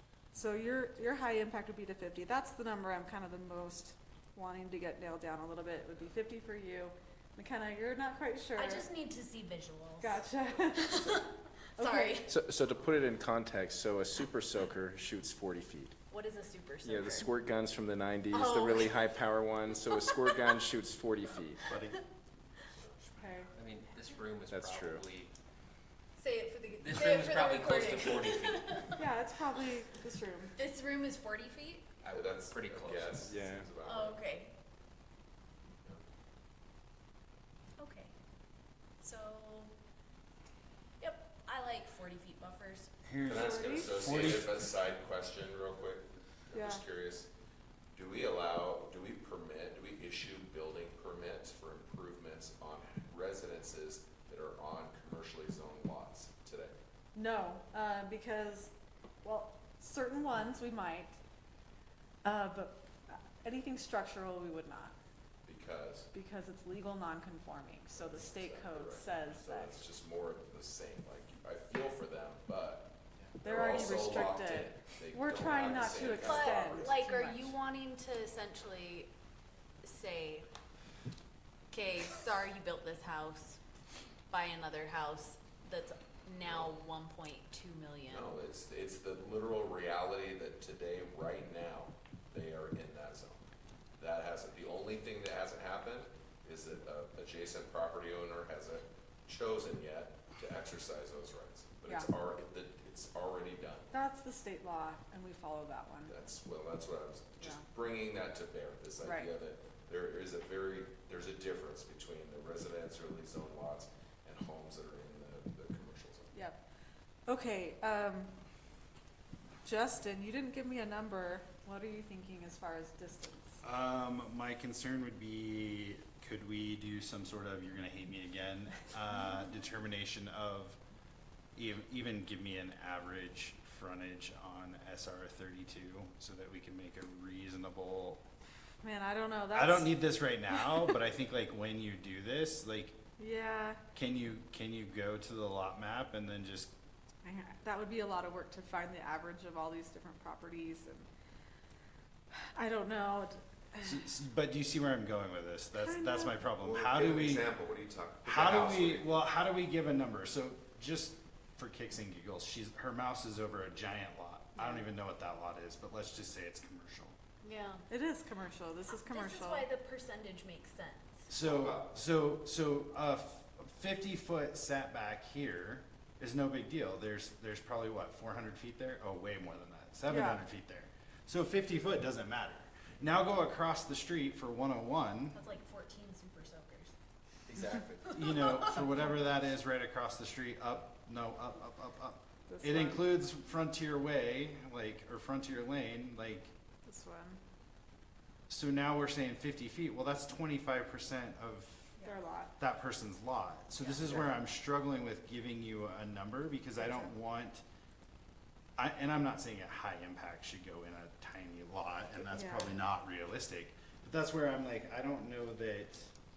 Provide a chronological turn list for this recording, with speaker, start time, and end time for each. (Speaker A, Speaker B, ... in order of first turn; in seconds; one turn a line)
Speaker A: 0.3-8.9
Speaker B: 8.6-10.2
Speaker A: 10.0-11.2
Speaker B: 10.8-12.3
Speaker A: 11.8-12.2
Speaker C: 12.3-15.9
Speaker B: 16.1-17.3
Speaker C: 16.8-21.7
Speaker B: 18.3-19.0
Speaker D: 21.7-22.0
Speaker E: 23.0-25.3
Speaker A: 23.2-23.5
Speaker C: 24.5-25.1
Speaker B: 26.2-29.0
Speaker E: 26.8-29.0
Speaker A: 29.0-30.5
Speaker B: 30.6-31.9
Speaker E: 32.0-33.2
Speaker F: 32.1-34.2
Speaker C: 33.2-33.7
Speaker B: 33.8-34.5
Speaker B: 37.8-38.1
Speaker B: 39.0-39.7
Speaker B: 41.0-42.9
Speaker D: 43.0-44.7
Speaker F: 43.2-47.3
Speaker A: 43.2-44.0
Speaker A: 46.5-46.8
Speaker F: 47.9-56.7
Speaker A: 57.1-61.2
Speaker A: 62.2-64.9
Speaker F: 65.4-66.1
Speaker A: 66.1-69.8
Speaker F: 67.9-72.9
Speaker A: 73.4-77.5
Speaker F: 73.4-77.0
Speaker B: 76.0-79.1
Speaker B: 79.8-80.5
Speaker B: 81.7-83.6
Speaker B: 84.3-88.4
Speaker F: 86.4-86.7
Speaker F: 88.1-93.4
Speaker F: 94.0-103.9
Speaker A: 103.9-106.1
Speaker F: 106.1-116.3
Speaker A: 109.0-109.3
Speaker A: 116.3-116.6
Speaker A: 117.3-118.3
Speaker A: 119.6-123.6
Speaker D: 123.6-130.8
Speaker D: 131.6-138.2
Speaker A: 138.8-140.0
Speaker D: 139.5-142.9
Speaker A: 143.2-143.8
Speaker D: 143.9-146.7
Speaker A: 147.2-151.1
Speaker A: 152.4-154.0
Speaker D: 153.8-157.5
Speaker A: 155.7-156.4
Speaker F: 156.6-159.1
Speaker D: 158.2-167.2
Speaker B: 167.4-167.8
Speaker A: 167.9-169.7
Speaker B: 169.0-171.3
Speaker D: 171.3-185.4
Speaker F: 171.4-171.9
Speaker A: 180.1-180.4
Speaker B: 185.3-186.9
Speaker F: 187.5-188.2
Speaker D: 188.1-196.5
Speaker B: 188.2-189.0
Speaker A: 192.5-193.1
Speaker A: 196.8-197.4
Speaker D: 198.5-201.9
Speaker A: 202.0-202.5
Speaker D: 202.6-207.6
Speaker B: 203.8-204.3
Speaker A: 206.8-207.1
Speaker D: 208.8-216.1
Speaker A: 212.3-212.8